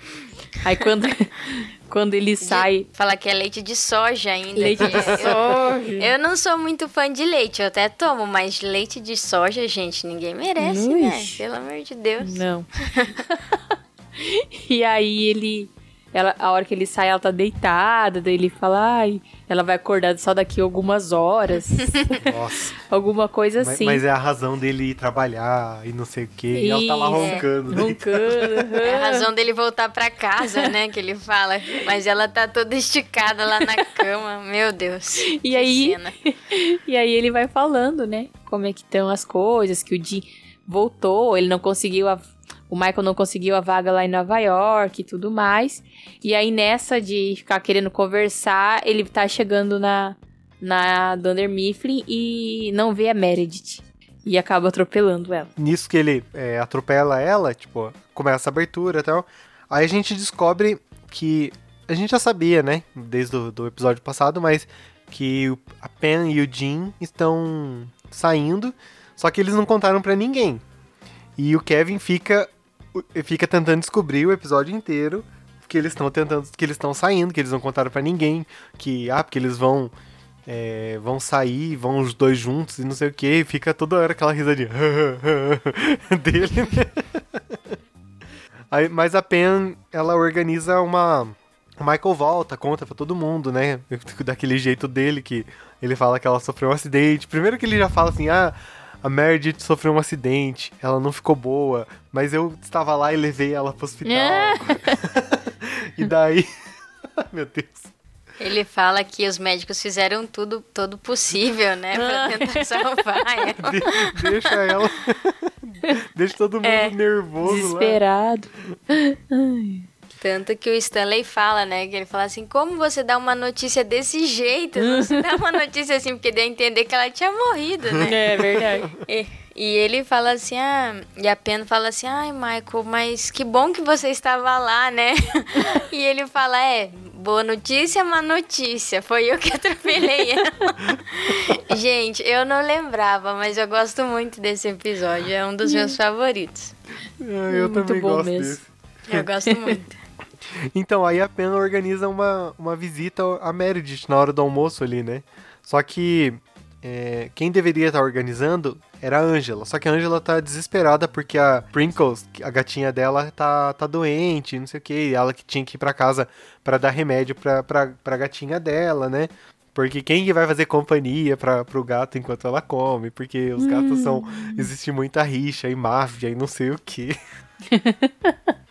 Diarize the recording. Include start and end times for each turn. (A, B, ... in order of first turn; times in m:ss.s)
0:00.6-0:02.9 A
0:02.4-0:13.2 B
0:04.6-0:06.1 A
0:10.6-0:11.4 A
0:12.2-0:13.6 A
0:14.2-0:24.0 A
0:21.8-0:22.0 B
0:22.2-0:22.8 C
0:23.6-0:28.7 C
0:26.5-0:29.3 A
0:27.1-0:27.4 B
0:28.8-0:36.2 B
0:35.3-0:55.5 A
0:55.6-1:10.6 C
1:11.4-1:19.9 C
1:20.5-1:27.6 C
1:28.7-1:46.5 C
1:44.0-1:45.0 A
1:47.2-1:47.9 C
1:48.4-1:54.7 B
1:51.9-1:53.0 A
1:53.6-1:58.0 C
1:56.6-1:56.9 B
1:57.4-1:59.9 A
2:00.2-2:08.4 B
2:04.8-2:05.2 A
2:08.1-2:08.9 A
2:09.0-2:26.7 B
2:25.7-2:25.9 A
2:27.2-2:28.7 C
2:27.5-2:28.6 A
2:29.1-2:30.0 B
2:30.7-2:57.2 C
2:53.6-2:54.7 A
2:57.7-2:58.3 A